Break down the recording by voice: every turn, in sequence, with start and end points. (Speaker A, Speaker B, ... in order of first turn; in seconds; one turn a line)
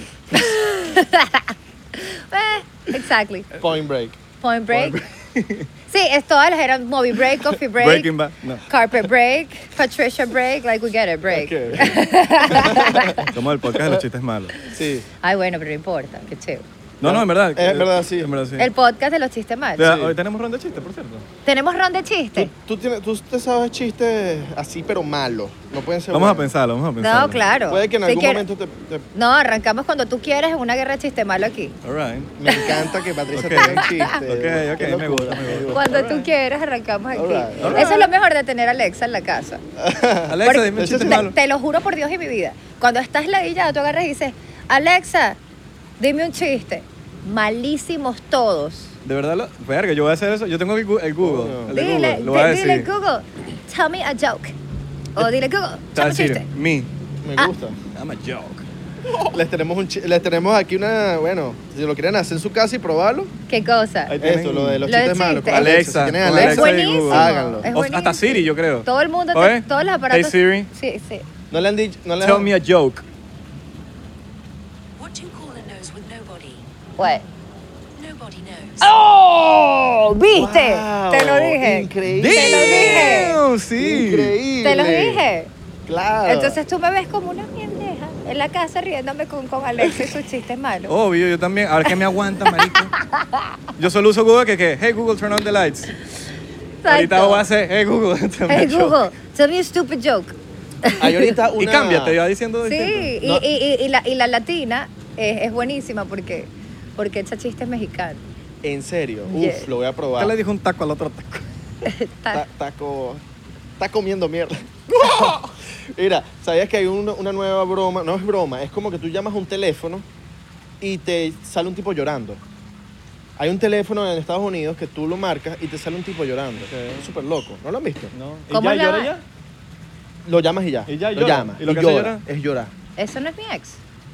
Speaker A: 0.3-3.5
Speaker B: 3.6-4.2
Speaker A: 4.4-5.0
Speaker C: 4.7-5.7
Speaker A: 5.9-8.1
Speaker C: 7.8-8.6
Speaker A: 8.7-13.3
Speaker B: 11.3-14.0
Speaker C: 13.3-14.6
Speaker B: 14.7-15.1
Speaker A: 15.2-16.6
Speaker B: 17.0-18.3
Speaker C: 17.0-18.7
Speaker A: 18.6-19.9
Speaker C: 19.8-21.2
Speaker B: 19.8-20.1
Speaker A: 21.4-22.5
Speaker B: 22.3-26.5
Speaker C: 26.1-27.4
Speaker A: 27.0-28.4
Speaker B: 27.7-29.0
Speaker A: 29.1-31.8
Speaker C: 31.8-32.3
Speaker B: 32.4-35.9
Speaker C: 33.3-36.3
Speaker A: 33.8-34.2
Speaker A: 35.7-39.6
Speaker B: 37.1-38.0
Speaker C: 37.6-38.0
Speaker B: 39.8-41.3
Speaker C: 40.3-41.3
Speaker A: 40.4-45.4
Speaker A: 46.0-48.9
Speaker C: 49.0-52.9
Speaker B: 51.2-51.8
Speaker A: 51.7-54.5
Speaker A: 55.1-56.5
Speaker C: 55.9-56.9
Speaker B: 57.2-57.8
Speaker C: 57.9-59.3
Speaker B: 59.3-63.3
Speaker A: 63.5-64.1
Speaker C: 64.1-64.8
Speaker B: 64.2-67.7
Speaker A: 64.8-65.7
Speaker C: 65.5-70.7
Speaker A: 66.3-71.2
Speaker B: 71.5-72.5
Speaker C: 72.2-73.0
Speaker D: 75.0-76.7
Speaker A: 77.0-77.2
Speaker D: 78.0-78.9
Speaker A: 78.8-83.4
Speaker B: 80.3-85.2
Speaker C: 82.1-84.4
Speaker A: 84.6-85.5
Speaker B: 85.8-86.6
Speaker A: 86.2-90.9
Speaker C: 90.9-93.0
Speaker A: 92.5-93.5
Speaker C: 93.8-96.0
Speaker A: 96.8-97.4
Speaker C: 96.9-99.0
Speaker A: 98.5-101.3
Speaker B: 101.0-102.2
Speaker C: 101.6-103.2
Speaker A: 102.6-108.2
Speaker B: 108.6-110.3
Speaker A: 109.3-109.7
Speaker C: 110.2-111.4
Speaker A: 111.8-112.5
Speaker B: 112.3-113.2
Speaker B: 113.8-120.0
Speaker C: 115.0-115.4
Speaker B: 120.8-122.4
Speaker B: 123.4-128.1
Speaker C: 126.6-127.0
Speaker C: 128.1-129.2
Speaker A: 128.5-129.1
Speaker B: 130.2-132.7
Speaker C: 130.9-132.2
Speaker A: 133.0-133.8